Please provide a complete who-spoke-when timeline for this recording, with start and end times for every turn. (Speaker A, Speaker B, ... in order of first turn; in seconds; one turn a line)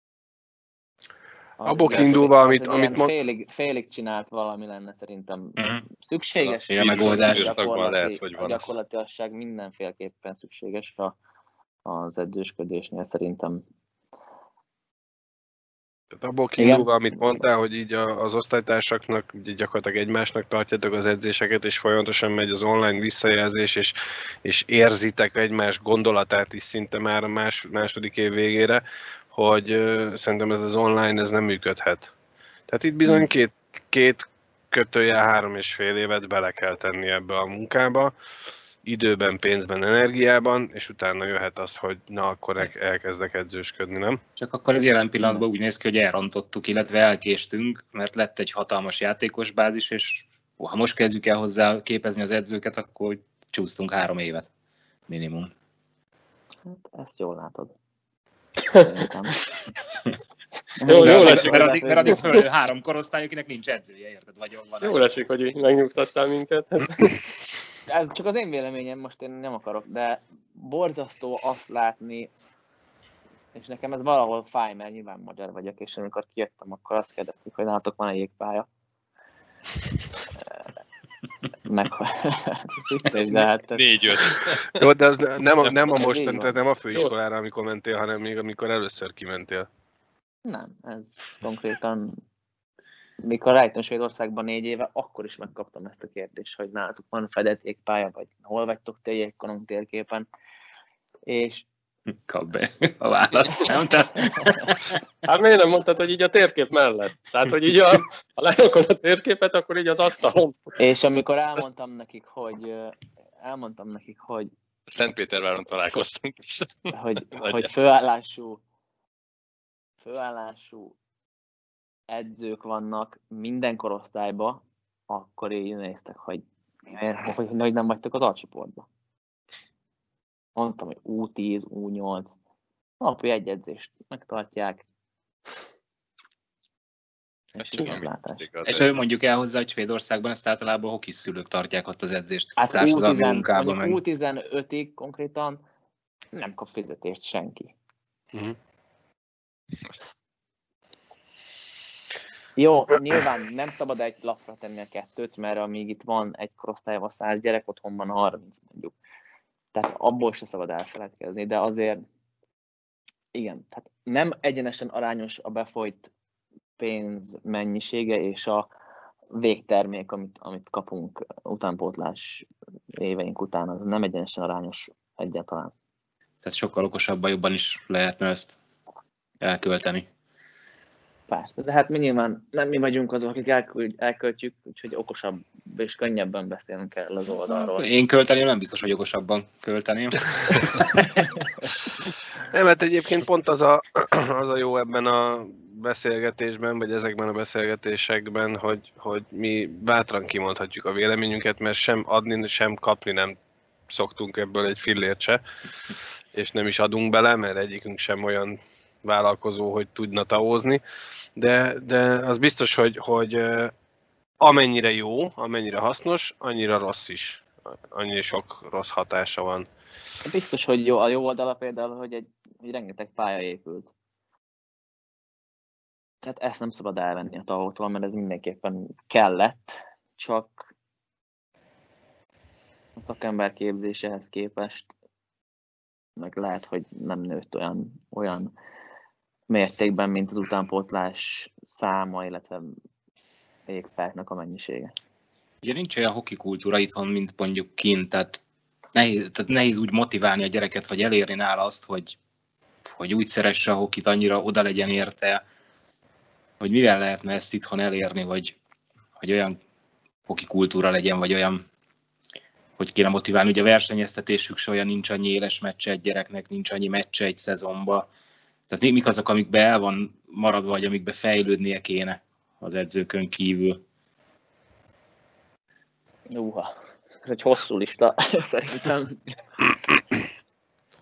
Speaker A: 1.6-11.2
Speaker B: 1.6-3.1
Speaker C: 5.6-5.8
Speaker C: 6.7-7.5
Speaker D: 6.8-8.7
Speaker A: 11.8-13.6
Speaker B: 16.1-32.1
Speaker A: 16.6-16.9
Speaker B: 32.7-38.1
Speaker B: 38.8-44.2
Speaker C: 44.4-54.5
Speaker C: 55.1-55.5
Speaker A: 56.6-57.7
Speaker A: 58.7-59.7
Speaker A: 60.8-62.4
Speaker E: 60.8-61.8
Speaker C: 61.0-65.1
Speaker E: 64.8-67.2
Speaker A: 67.9-72.3
Speaker A: 73.5-78.7
Speaker A: 81.6-83.8
Speaker D: 83.7-84.8
Speaker B: 84.7-89.7
Speaker A: 85.9-86.6
Speaker A: 90.4-92.2
Speaker A: 93.2-100.2
Speaker A: 101.2-101.7
Speaker C: 102.2-105.0
Speaker E: 105.2-110.8
Speaker A: 110.8-114.5
Speaker D: 114.9-117.7
Speaker A: 116.9-118.6
Speaker A: 120.0-120.9
Speaker A: 122.1-128.8
Speaker A: 130.6-132.3
Speaker A: 133.0-134.8
Speaker A: 137.6-138.4
Speaker D: 137.6-138.9
Speaker C: 138.7-144.0
Speaker A: 142.6-145.6
Speaker A: 146.3-147.7
Speaker A: 152.6-158.9
Speaker A: 159.7-162.0
Speaker A: 163.3-166.1
Speaker A: 166.8-168.7
Speaker A: 169.3-175.7
Speaker C: 176.4-178.6
Speaker C: 179.4-180.1
Speaker A: 181.3-187.8
Speaker C: 187.5-191.2
Speaker B: 192.4-203.4
Speaker B: 203.9-205.4
Speaker B: 206.3-210.8
Speaker B: 211.4-213.7
Speaker B: 214.4-219.7
Speaker A: 220.2-223.9
Speaker A: 226.2-230.7
Speaker A: 233.0-234.9
Speaker A: 236.2-238.5
Speaker A: 239.5-242.7
Speaker A: 243.7-244.9
Speaker C: 245.6-248.4
Speaker C: 248.9-252.2
Speaker C: 252.9-255.4
Speaker C: 256.6-258.6
Speaker C: 259.2-259.6
Speaker C: 260.3-261.6
Speaker C: 262.8-268.1
Speaker C: 268.7-273.8
Speaker A: 276.3-279.2